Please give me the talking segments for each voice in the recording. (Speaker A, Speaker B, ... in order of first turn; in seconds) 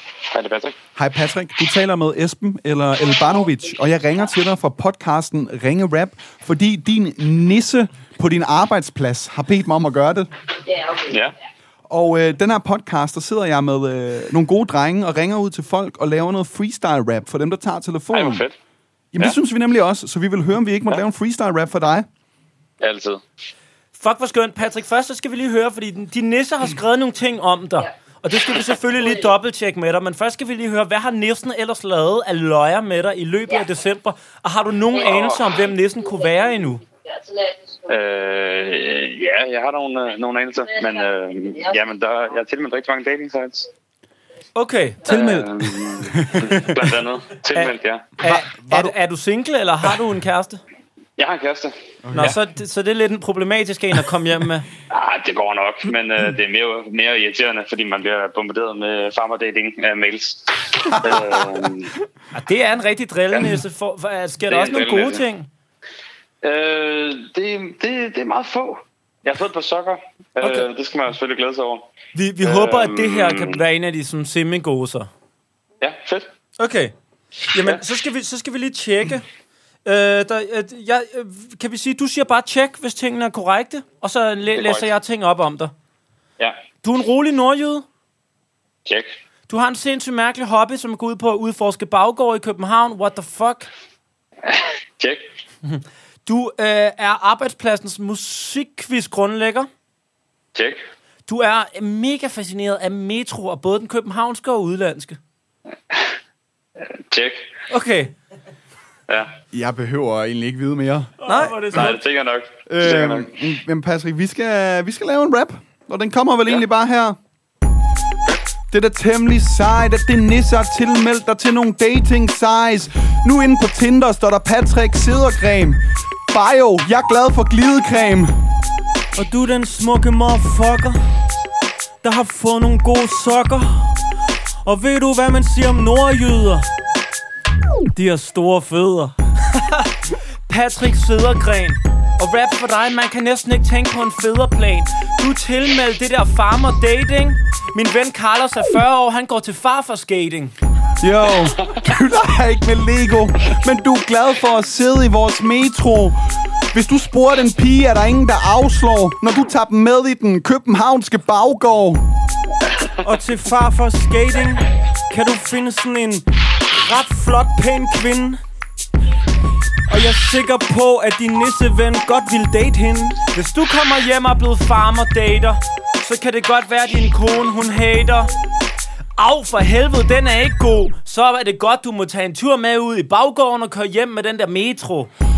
Speaker A: 0.3-0.8, 11.0-11.3, 18.1-18.5, 22.8-23.2, 35.0-35.4, 37.9-43.7, 45.0-48.0, 51.2-52.4, 54.9-61.9, 64.5-65.2, 66.4-71.9, 72.4-73.6, 75.8-76.3, 84.5-84.9, 94.5-95.2, 106.8-107.4, 111.7-113.3
Speaker B: 0.9-10.3, 11.9-18.4, 19.1-22.1, 48.2-48.9, 52.0-52.3, 61.0-61.4, 109.5-111.9, 112.8-117.2, 118.7-128.3, 151.0-156.2, 156.7-162.1
Speaker C: 23.9-36.8, 44.5-45.1, 47.5-50.6, 52.1-54.7, 62.3-65.5, 70.4-70.7, 72.1-75.1, 76.6-76.9, 77.5-79.2, 79.8-85.7, 86.8-87.8, 89.5-93.7, 95.6-99.7, 101.3-105.2, 107.7-108.1, 111.2-112.0, 139.5-139.9, 140.5-150.5, 173.3-178.3, 179.2-185.1
Speaker D: 45.0-46.7, 111.3-111.9, 129.1-131.0, 132.0-133.9, 134.6-136.7, 137.9-139.1, 163.0-168.4, 169.9-173.2